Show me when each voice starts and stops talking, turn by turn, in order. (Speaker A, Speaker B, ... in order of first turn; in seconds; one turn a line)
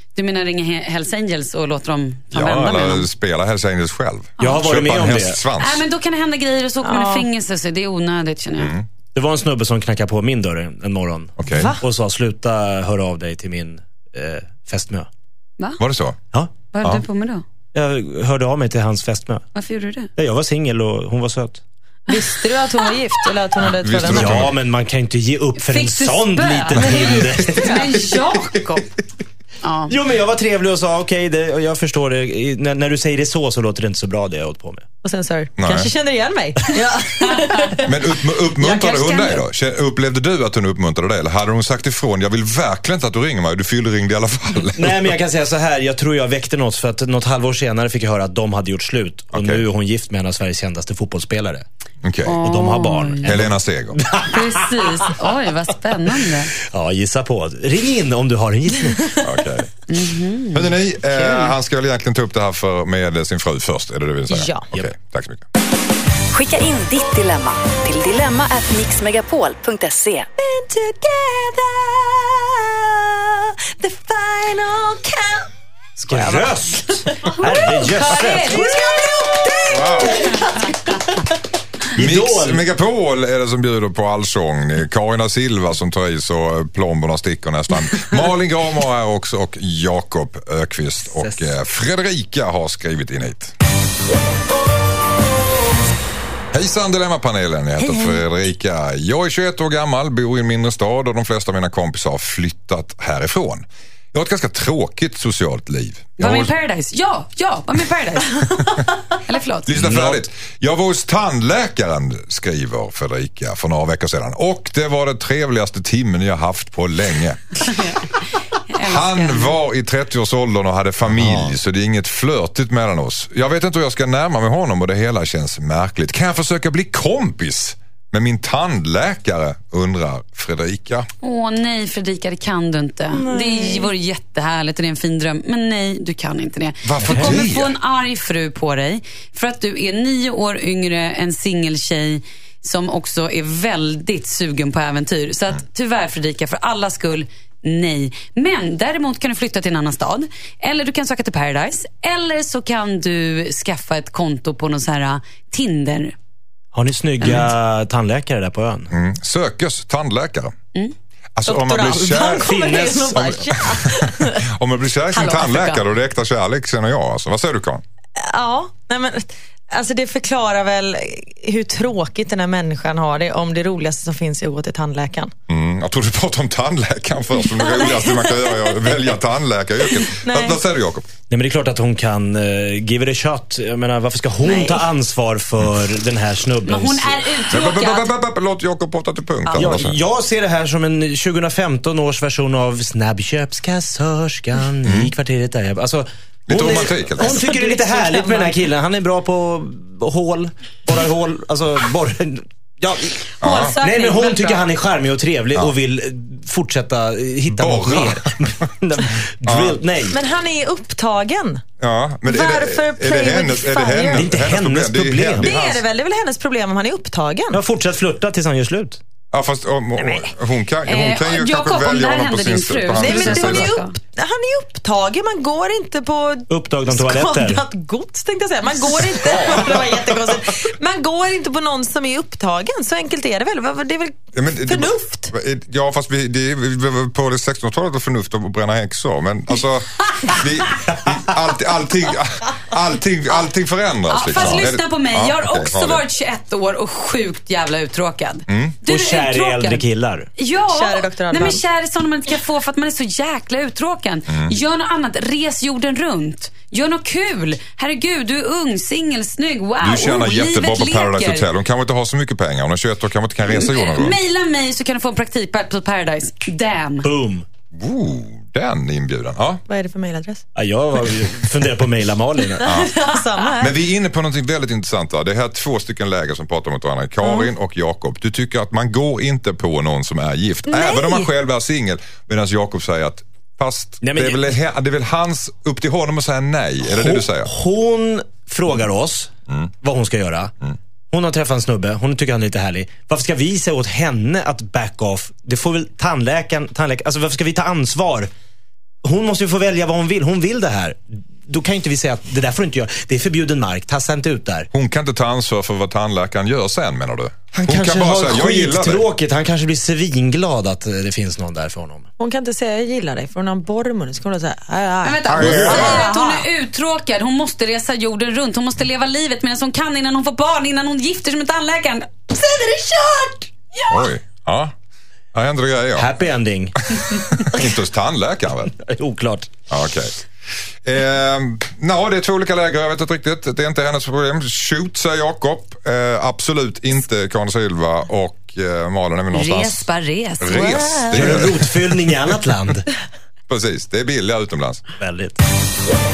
Speaker A: 0.1-3.1
Speaker B: 2.3-5.8
Speaker C: 4.4-5.4
Speaker A: 5.6-8.8
Speaker D: 6.8-7.2
Speaker B: 8.6-8.8
Speaker C: 9.1-15.1
Speaker B: 11.4-11.8
Speaker B: 15.8-16.2
Speaker A: 16.7-17.4
Speaker C: 17.7-19.4
Speaker A: 19.5-20.1
Speaker C: 20.1-21.6
Speaker D: 22.1-24.5
Speaker B: 23.6-24.6
Speaker C: 24.0-27.8
Speaker A: 25.6-28.9
Speaker D: 26.8-27.9
Speaker A: 29.6-29.9
Speaker C: 29.9-34.8
Speaker D: 35.0-37.9
Speaker B: 35.6-35.9
Speaker B: 37.8-45.1
Speaker A: 38.6-39.4
Speaker C: 44.7-51.6
Speaker B: 49.3-49.6
Speaker B: 52.0-52.4
Speaker A: 52.2-53.5
Speaker C: 52.3-55.1
Speaker B: 53.2-54.0
Speaker A: 54.2-56.5
Speaker C: 56.6-59.2
Speaker B: 59.2-59.8
Speaker A: 59.9-61.5
Speaker B: 60.5-65.5
Speaker D: 64.3-64.7
Speaker E: 66.3-70.3
Speaker D: 70.4-81.2
Speaker C: 76.0-78.8
Speaker A: 78.2-78.6
Speaker B: 79.7-80.3
Speaker C: 81.9-82.7
Speaker B: 81.9-93.5
Speaker C: 91.2-91.5
Speaker B: 96.5-106.5
Speaker A: 106.2-108.7
Speaker A: 109.2-110.1
Speaker B: 109.7-117.7
Speaker A: 117.6-119.6
Speaker B: 118.8-131.1
Speaker C: 121.1-121.5
Speaker A: 131.2-156.1
Speaker D: 133.1-133.9
Speaker B: 136.8-137.8
Speaker C: 156.7-158.9
Speaker A: 157.2-157.5
Speaker B: 158.9-160.5
Speaker B: 161.3-162.5
Speaker D: 161.5-164.4
Speaker C: 162.4-163.5
Speaker B: 163.6-167.8
Speaker A: 165.1-165.8
Speaker D: 168.2-175.3
Speaker B: 175.5-181.1
Speaker D: 177.5-179.1
Speaker D: 180.0-180.6
Speaker C: 181.3-187.3
Speaker D: 184.4-184.8
Speaker A: 186.7-188.1
Speaker B: 187.5-190.0
Speaker A: 189.4-189.8
Speaker C: 189.6-210.2
Speaker B: 194.8-195.1
Speaker B: 196.5-197.4
Speaker D: 197.2-198.5
Speaker B: 203.4-203.8
Speaker A: 203.4-204.6
Speaker B: 207.5-208.5
Speaker B: 209.4-209.8
Speaker D: 210.1-211.6
Speaker B: 211.8-215.8
Speaker D: 212.2-214.3
Speaker C: 214.1-215.5
Speaker D: 215.4-217.6
Speaker C: 217.5-219.0
Speaker B: 219.3-223.7
Speaker A: 220.8-223.9
Speaker D: 223.0-235.3
Speaker C: 226.5-227.6
Speaker B: 229.1-230.4
Speaker B: 234.3-246.0
Speaker A: 244.1-249.8
Speaker B: 248.5-248.8
Speaker C: 248.9-250.3
Speaker A: 250.4-261.5
Speaker D: 250.6-251.6
Speaker B: 254.3-254.5
Speaker B: 259.8-264.2
Speaker A: 263.4-267.1
Speaker C: 267.0-267.4
Speaker B: 267.7-269.6
Speaker D: 269.7-270.4
Speaker C: 270.5-272.7
Speaker B: 272.6-273.0
Speaker D: 272.6-273.8
Speaker B: 273.6-287.5
Speaker D: 277.2-277.5
Speaker D: 280.7-281.3
Speaker C: 284.0-284.5
Speaker C: 286.8-290.5
Speaker C: 291.1-298.3
Speaker C: 299.0-304.7
Speaker B: 304.7-309.0
Speaker C: 307.5-312.1
Speaker D: 312.2-316.5
Speaker A: 315.0-322.4
Speaker B: 315.3-316.1
Speaker D: 322.3-323.5
Speaker B: 323.9-324.7
Speaker B: 325.3-326.1
Speaker C: 325.9-326.8
Speaker B: 326.8-328.7
Speaker C: 328.8-329.5
Speaker B: 329.7-330.1
Speaker B: 330.8-342.0
Speaker A: 339.3-340.7
Speaker D: 340.5-341.1
Speaker C: 341.1-342.9
Speaker B: 343.5-344.8
Speaker C: 345.0-345.4